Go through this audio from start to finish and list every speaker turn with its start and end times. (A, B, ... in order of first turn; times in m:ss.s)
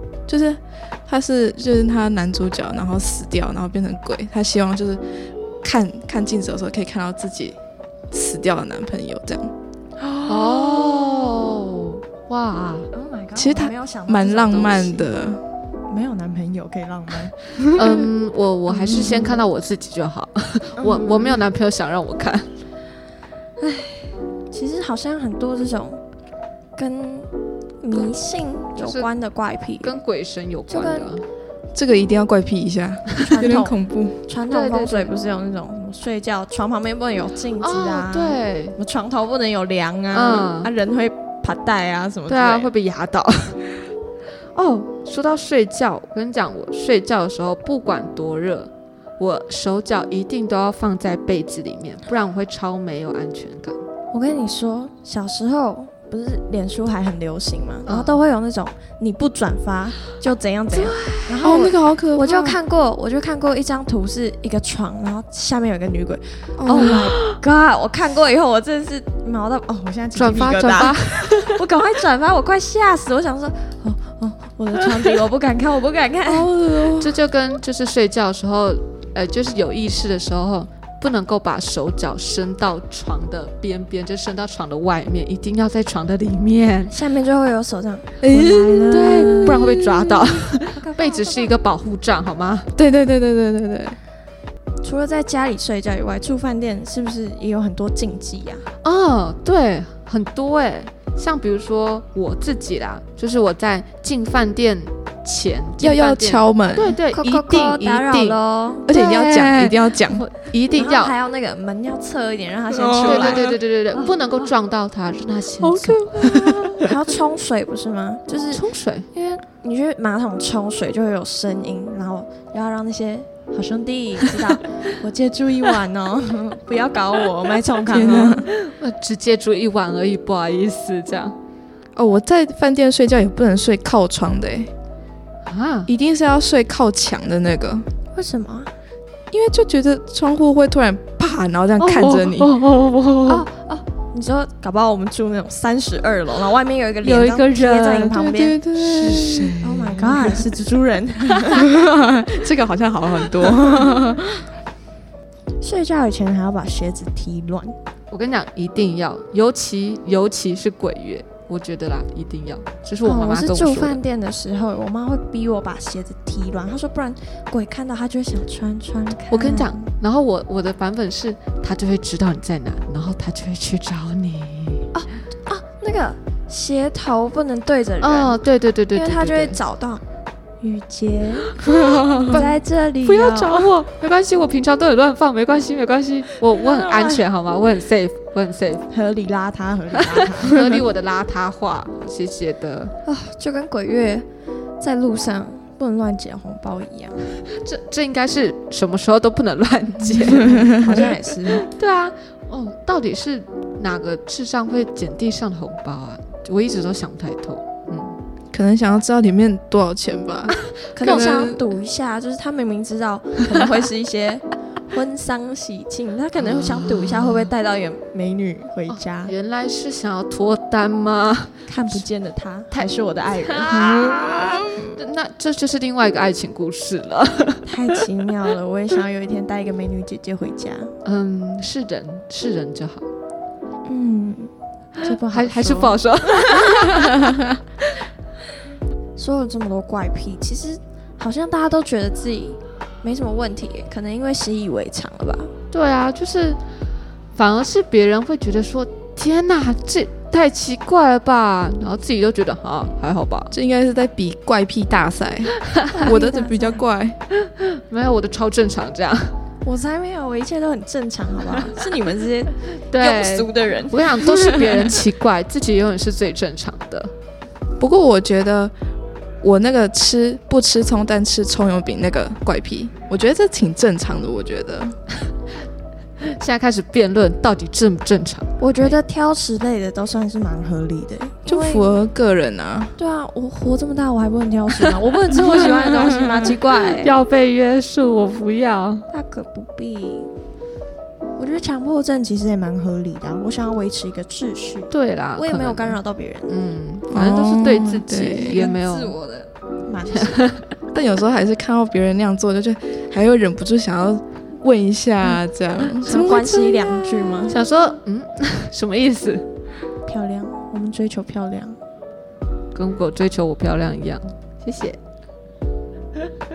0:00.3-0:05.0 A
0:05.6-0:07.6 A
0:08.1-0:09.5 A
0:10.0-0:11.4 B
0:10.3-0:12.9 C
0:12.9-0:15.1 B
0:13.4-0:15.4 A
0:15.9-0:17.3 B
0:17.7-0:22.5 C
0:18.8-0:19.3 A
0:20.8-0:21.4 B
0:23.6-0:26.0 B
0:26.8-0:27.3 B
0:27.8-0:30.0 B
0:28.7-0:29.1 C
0:29.8-0:31.2 C
0:30.7-0:31.1 B
0:31.7-0:34.2 A
0:33.2-0:42.7 B
0:34.5-0:35.1 C
0:37.6-0:38.8 C
0:40.1-0:40.7 C
0:42.3-0:43.6 C
0:44.5-0:53.8 C
0:54.1-1:16.5 B
0:57.8-0:58.2 C
1:00.7-1:01.1 C
1:01.4-1:02.6 A
1:06.6-1:07.1 A
1:10.1-1:11.6 C
1:16.2-1:17.2 A
1:17.0-1:26.9 C
1:26.9-1:29.8 B
1:28.2-1:30.4 A
1:28.9-1:32.7 C
1:30.6-1:31.5 B
1:32.7-1:34.0 A
1:34.8-1:38.6 B
1:38.8-1:51.1 C
1:45.8-1:47.0 A
1:47.1-1:48.9 B
1:48.8-1:50.2 A
1:50.7-1:53.5 B
1:52.7-1:53.6 A
1:53.0-1:56.9 C
1:55.6-1:56.9 A
1:56.8-1:58.6 B
1:58.5-1:59.1 C
1:59.1-2:08.5 B
2:07.9-2:08.5 A
2:08.6-2:11.3 C
2:12.0-2:14.7 A
2:15.4-2:15.9 C
2:15.9-2:17.9 A
2:18.1-2:18.7 B
2:19.3-2:22.5 A
2:21.8-2:23.4 C
2:23.2-2:28.6 B
2:27.0-2:28.1 C
2:28.1-2:30.4 A
2:28.8-2:29.6 C
2:29.6-2:31.8 B
2:31.5-2:34.4 A
2:35.6-2:37.7 B
2:38.1-2:44.0 C
2:43.0-2:49.9 B
2:49.3-2:54.9 C
2:54.9-2:58.4 B
2:58.0-2:59.6 C
2:58.9-3:00.0 B
3:00.6-3:03.7 B
3:01.6-3:08.8 C
3:01.9-3:02.4 A
3:06.5-3:07.2 B
3:08.9-3:10.6 B
3:10.0-3:12.9 C
3:13.0-3:14.2 B
3:14.8-3:17.2 B
3:17.5-3:28.2 C
3:20.3-3:21.7 B
3:28.5-3:31.6 A
3:31.0-3:39.3 B
3:36.4-3:37.4 C
3:38.9-3:42.0 C
3:41.7-3:43.9 B
3:43.4-3:47.9 C
3:43.7-3:44.9 A
3:47.6-3:50.9 B
3:51.0-3:53.1 C
3:53.9-3:57.0 B
3:55.3-3:57.4 C
3:59.2-4:05.5 B
4:05.7-4:06.6 C
4:07.3-4:13.5 C
4:13.5-4:17.2 A
4:15.9-4:16.8 B
4:17.5-4:19.3 C
4:19.6-4:25.0 B
4:22.9-4:27.1 C
4:27.8-4:28.7 A
4:29.4-4:35.0 A
4:36.2-4:39.0 C
4:38.6-4:42.0 B
4:41.4-4:42.9 A
4:43.0-4:47.1 B
4:44.9-4:49.1 C
4:49.1-4:50.3 B
4:51.4-4:56.6 B
4:54.9-4:56.0 C
4:56.5-4:59.1 C
4:57.1-4:58.7 A
4:58.2-5:00.5 B
5:00.1-5:00.6 C
5:00.9-5:06.9 A
5:06.0-5:07.6 B
5:07.5-5:09.4 C
5:10.0-5:11.8 B
5:12.7-5:15.0 C